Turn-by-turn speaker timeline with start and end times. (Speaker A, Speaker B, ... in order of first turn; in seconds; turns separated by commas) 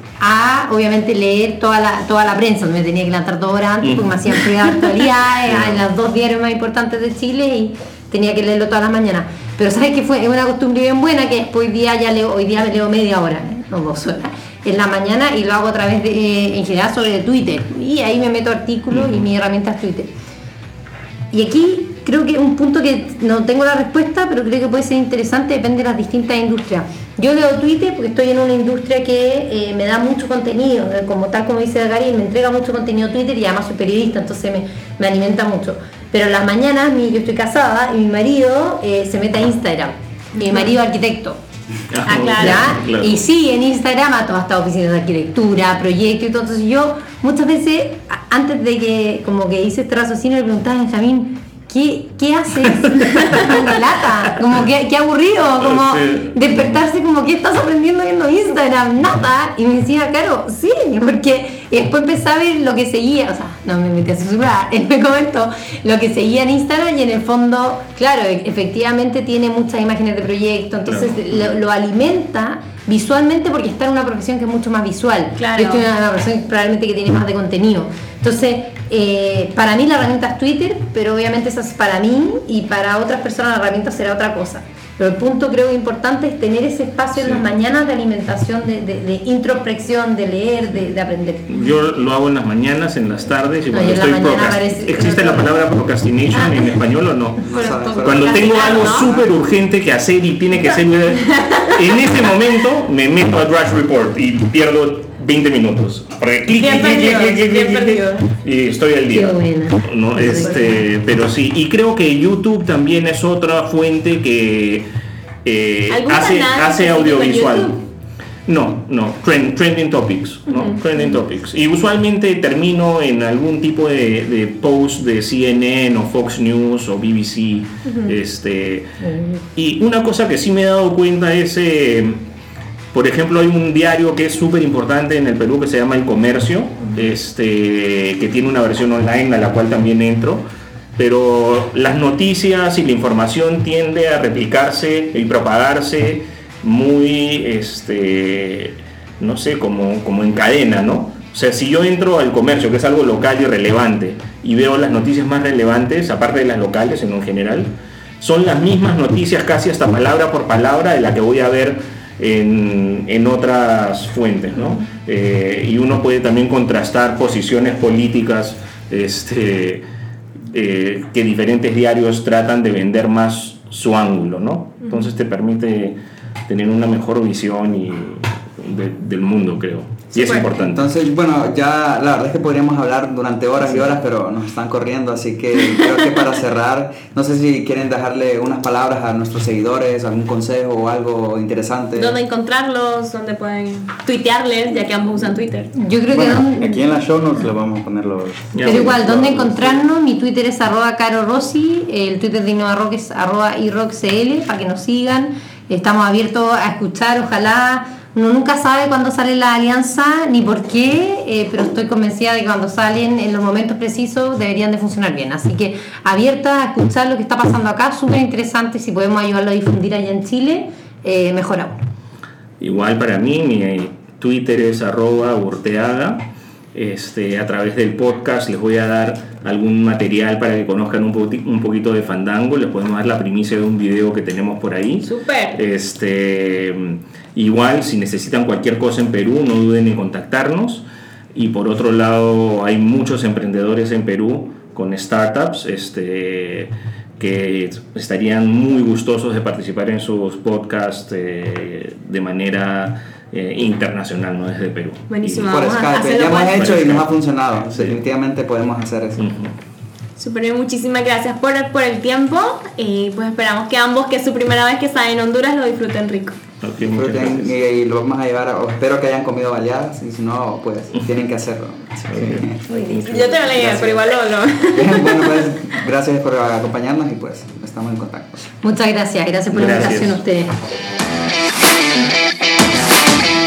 Speaker A: 0.2-20.1, Speaker B: 3.8-4.5, Speaker B: 5.5-5.8, Speaker B: 18.9-19.2, Speaker A: 21.3-41.4, Speaker C: 40.4-40.7, Speaker B: 41.9-43.2, Speaker A: 42.0-91.6, Speaker C: 42.0-42.7, Speaker B: 55.6-56.6, Speaker B: 70.9-71.5, Speaker C: 75.4-75.9, Speaker B: 87.2-87.4, Speaker B: 91.5-97.5, Speaker A: 93.7-95.6, Speaker D: 97.4-99.3, Speaker C: 97.5-99.1, Speaker A: 97.5-97.9, Speaker B: 98.0-114.9, Speaker C: 101.3-101.8, Speaker C: 106.6-108.3, Speaker A: 109.1-110.8, Speaker B: 115.5-117.8, Speaker C: 115.9-117.8, Speaker B: 118.5-128.9, Speaker C: 120.5-121.1, Speaker A: 129.0-129.4, Speaker B: 129.6-132.2, Speaker B: 132.9-140.4, Speaker B: 141.0-169.8, Speaker B: 170.5-180.8, Speaker C: 180.2-180.5, Speaker D: 180.3-192.2, Speaker C: 192.0-195.7, Speaker A: 195.8-196.8, Speaker E: 196.1-199.8, Speaker B: 198.5-199.7, Speaker A: 198.6-221.8, Speaker B: 222.6-255.5, Speaker C: 235.0-235.6, Speaker C: 255.1-256.7, Speaker D: 255.5-259.3, Speaker B: 256.5-257.1, Speaker B: 257.7-258.0, Speaker B: 259.2-259.6, Speaker C: 260.2-266.4, Speaker B: 266.6-267.5, Speaker D: 266.9-272.6, Speaker B: 272.1-273.8, Speaker C: 272.7-275.5, Speaker D: 273.5-274.1, Speaker D: 274.7-278.4, Speaker A: 278.6-280.6, Speaker B: 279.5-280.2